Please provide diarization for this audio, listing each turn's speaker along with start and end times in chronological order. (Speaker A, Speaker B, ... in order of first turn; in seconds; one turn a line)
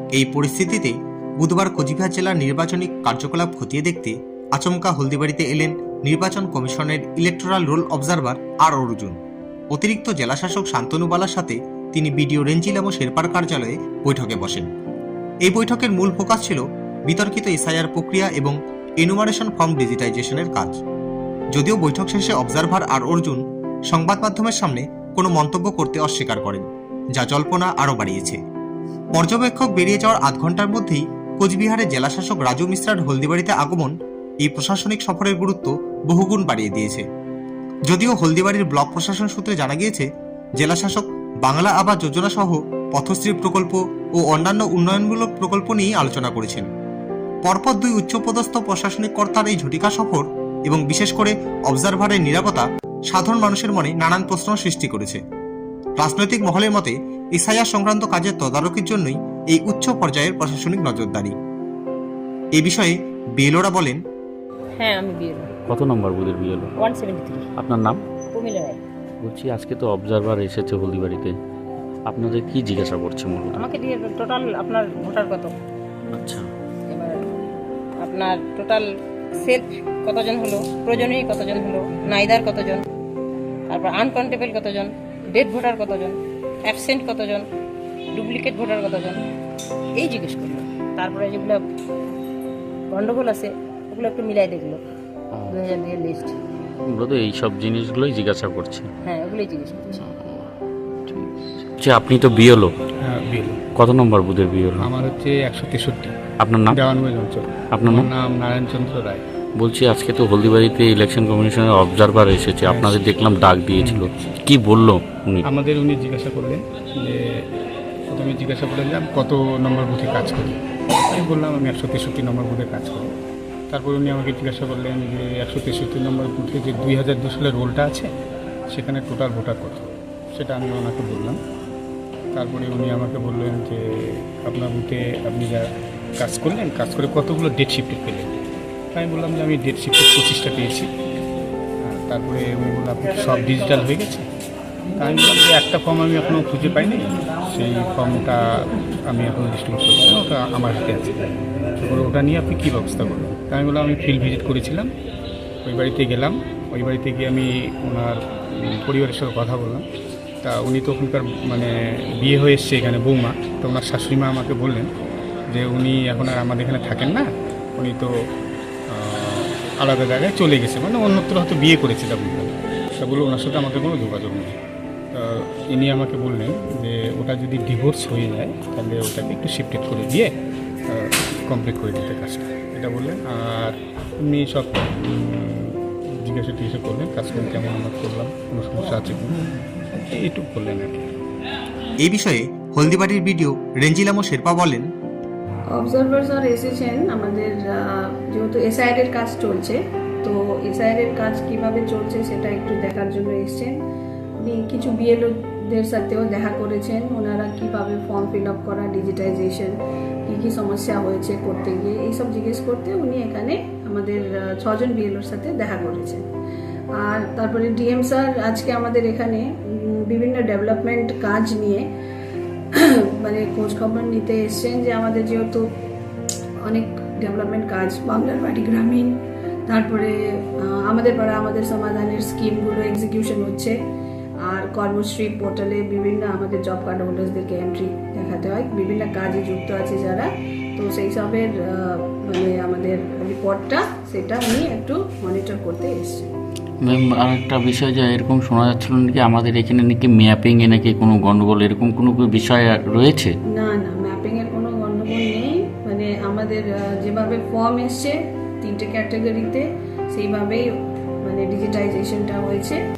Speaker A: 0.1-9.2
Speaker A: 9.7-14.7
Speaker A: 15.5-20.8
Speaker A: 21.6-28.4
Speaker A: 29.2-37.1
Speaker A: 37.9-40.1
Speaker A: 40.6-46.7
Speaker A: 47.5-55.2
Speaker A: 56.0-61.4
Speaker A: 62.6-64.0
Speaker B: 64.8-65.5
Speaker C: 65.7-66.7
Speaker B: 66.8-67.5
Speaker C: 67.6-68.0
Speaker B: 68.3-68.8
Speaker C: 69.2-71.3
Speaker C: 72.1-73.7
Speaker B: 73.5-75.5
Speaker C: 76.1-76.5
Speaker B: 76.9-77.4
Speaker B: 78.0-78.9
Speaker B: 79.4-82.8
Speaker B: 83.7-87.5
Speaker B: 88.2-89.2
Speaker B: 90.0-91.6
Speaker B: 92.9-94.8
Speaker B: 95.5-96.4
Speaker C: 96.8-98.9
Speaker B: 99.1-100.0
Speaker C: 100.0-100.4
Speaker C: 101.8-102.7
Speaker D: 103.0-103.6
Speaker C: 103.8-104.9
Speaker D: 104.8-106.2
Speaker C: 106.4-106.8
Speaker D: 106.7-109.2
Speaker C: 107.8-108.1
Speaker C: 109.6-115.5
Speaker D: 112.6-113.1
Speaker D: 113.8-114.3
Speaker D: 115.4-117.4
Speaker D: 118.1-123.1
Speaker D: 123.7-128.1
Speaker D: 128.7-131.4
Speaker D: 132.3-135.7
Speaker D: 136.2-138.3
Speaker D: 138.9-140.9
Speaker D: 141.8-144.3
Speaker D: 145.0-154.9
Speaker D: 155.6-159.9
Speaker D: 160.4-164.9
Speaker D: 165.5-168.1
Speaker D: 168.9-174.6
Speaker D: 175.1-180.3
Speaker D: 180.9-191.1
Speaker A: 192.0-194.9
Speaker E: 195.7-203.8
Speaker E: 204.4-209.8
Speaker E: 210.3-216.2
Speaker E: 217.0-221.9
Speaker E: 222.8-225.7
Speaker E: 226.7-229.2
Speaker E: 229.7-233.8
Speaker E: 234.5-246.3
Speaker C: 246.8-253.3
Speaker E: 253.6-260.7
Speaker E: 261.2-262.8